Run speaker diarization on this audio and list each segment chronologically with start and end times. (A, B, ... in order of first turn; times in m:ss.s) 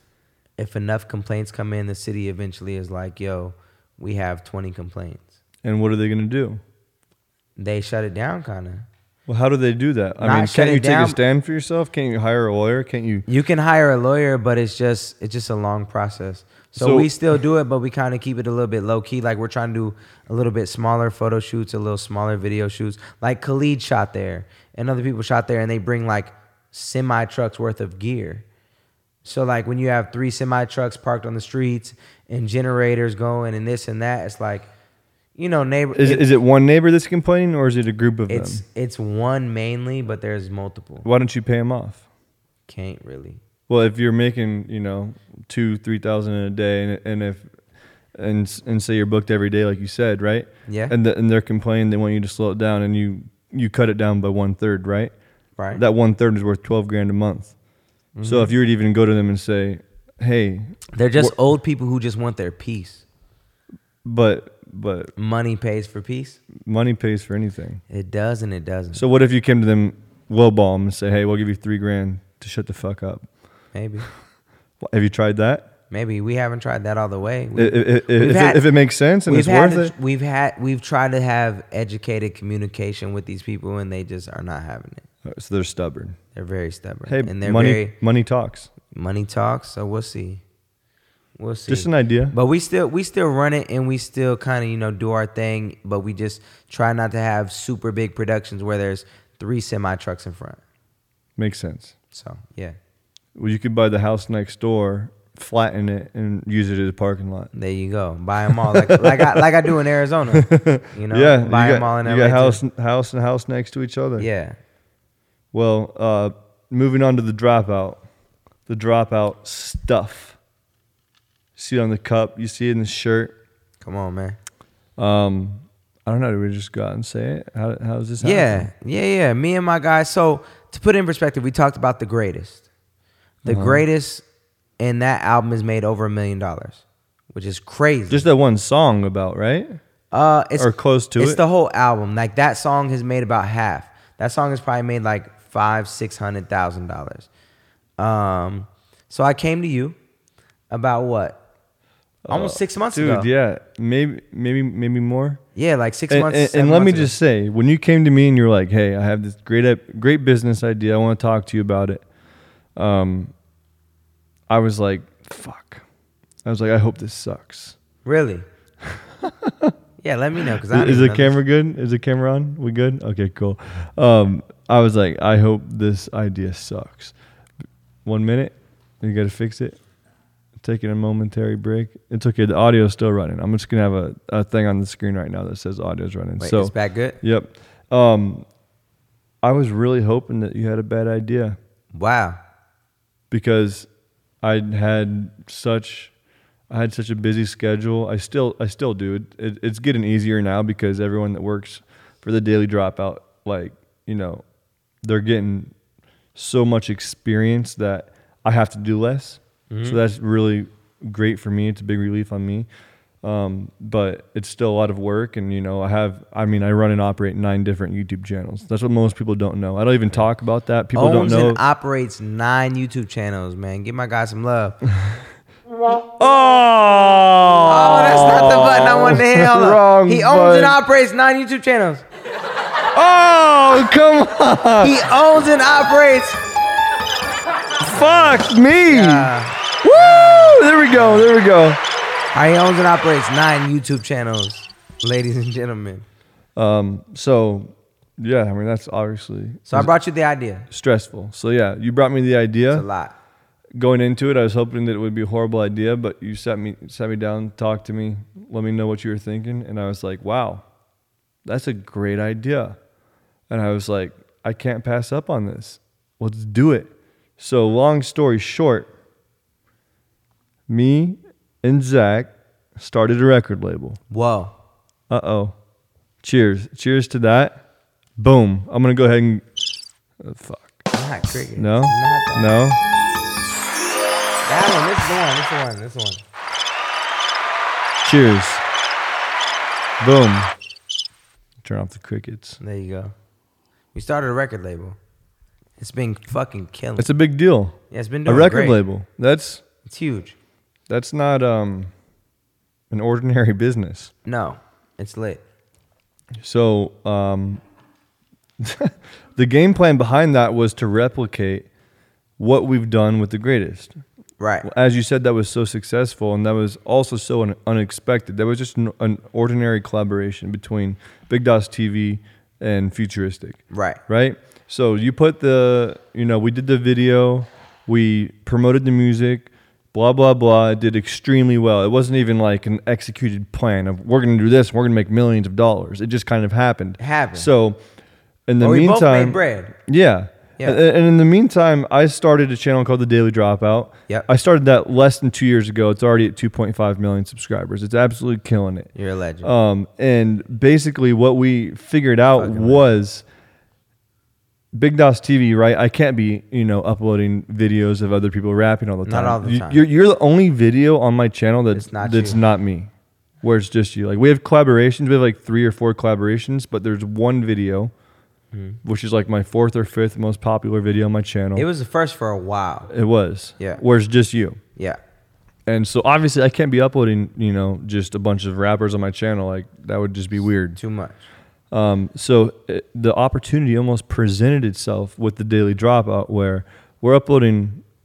0:00.6-0:05.3 A
0:05.6-0:06.6 B
0:07.6-0:08.9 A
0:09.3-0:13.2 B
0:10.2-0:11.2 A
0:13.3-0:28.4 A
0:16.8-0:17.1 B
0:29.2-0:34.7 A
0:35.4-0:36.2 A
0:35.9-0:38.6 B
0:38.3-0:41.0 A
0:41.0-0:42.0 B
0:42.7-0:43.4 A
0:43.7-0:47.5 B
0:48.2-0:55.1 B
0:50.7-0:50.9 A
0:55.7-0:57.5 B
0:58.2-0:58.5 A
0:58.2-1:01.3 B
1:00.9-1:03.0 A
1:04.0-1:05.1 B
1:05.2-1:06.4 A
1:06.6-1:07.8 B
1:07.9-1:09.0 A
1:08.9-1:13.2 B
1:13.7-1:14.1 A
1:14.8-1:15.7 B
1:15.9-1:18.7 A
1:17.6-1:19.9 B
1:19.2-1:25.0 A
1:25.2-1:26.2 B
1:26.3-1:27.9 A
1:27.1-1:28.7 B
1:28.9-1:30.4 A
1:31.4-1:40.6 A
1:31.7-1:32.3 B
1:41.4-1:41.9 B
1:42.1-1:42.8 A
1:43.4-1:47.5 B
1:47.5-1:52.6 A
1:48.5-1:49.4 B
1:50.3-1:54.3 B
1:54.2-1:54.6 A
1:55.5-1:58.0 B
1:58.7-2:00.4 B
2:01.6-2:03.3 B
2:03.8-2:04.4 A
2:05.0-2:08.7 B
2:08.2-2:12.6 A
2:13.4-2:14.2 A
2:13.4-2:13.8 B
2:14.8-2:18.2 A
2:18.1-2:19.8 B
2:20.1-2:27.3 A
2:20.6-2:21.4 B
2:28.0-2:30.0 A
2:30.7-2:31.4 A
2:32.2-2:35.4 B
2:32.3-2:33.3 A
2:35.5-2:37.1 A
2:36.1-2:42.0 B
2:42.8-2:43.3 B
2:44.5-2:45.8 B
2:46.4-2:47.7 B
2:48.0-2:48.4 A
2:48.8-2:49.7 B
2:50.0-2:51.4 A
2:50.5-2:57.1 B
2:58.0-2:59.8 B
3:00.6-3:08.4 B
3:06.4-3:07.2 A
3:09.4-3:11.6 B
3:11.9-3:12.4 A
3:13.3-3:13.9 B
3:14.4-3:16.1 B
3:16.7-3:24.4 B
3:25.0-3:25.7 B
3:26.3-3:32.7 B
3:29.7-3:30.0 A
3:33.2-3:41.6 B
3:40.9-3:44.8 A
3:46.2-3:50.8 B
3:47.6-3:52.0 A
3:52.9-3:55.0 B
3:54.8-3:56.4 A
3:57.8-3:59.3 B
3:58.9-4:01.3 A
3:59.8-4:01.8 B
4:02.3-4:06.0 A
4:06.6-4:09.9 B
4:09.7-4:10.7 A
4:10.7-4:12.8 B
4:12.7-4:13.1 A
4:13.8-4:20.6 B
4:21.4-4:22.8 B
4:23.5-4:28.9 B
4:30.7-4:34.0 B
4:34.1-4:34.5 A
4:35.1-4:35.5 B
4:36.2-4:37.6 B
4:38.2-4:39.4 B
4:40.2-4:40.8 B
4:40.9-4:42.6 A
4:41.6-4:42.8 B
4:44.4-4:46.2 A
4:48.0-4:48.6 B
4:50.0-4:50.5 B
4:51.6-4:52.6 B
4:52.6-4:53.1 A
4:53.9-4:55.0 A
4:55.8-4:57.1 A
4:57.0-4:59.6 B
4:57.9-4:58.8 A
4:59.8-5:00.4 A
5:00.9-5:01.9 B
5:02.9-5:04.1 B
5:04.2-5:05.4 A
5:06.4-5:07.6 B
5:08.6-5:11.7 B
5:12.4-5:14.0 B
5:14.4-5:14.7 A
5:14.6-5:37.8 B
5:23.7-5:24.0 A
5:37.0-5:37.5 A
5:38.5-5:48.9 B
5:38.6-5:39.7 A
5:48.9-5:49.5 A
5:49.4-5:53.2 B
5:52.4-5:52.8 A
5:54.7-6:02.9 B
5:59.0-5:59.8 A
6:01.7-6:02.4 A
6:03.4-6:07.9 B
6:08.5-6:08.8 A
6:08.8-6:11.6 B
6:11.5-6:12.9 A
6:12.9-6:14.6 B
6:15.7-6:20.8 B
6:20.8-6:21.2 A
6:21.7-6:27.8 B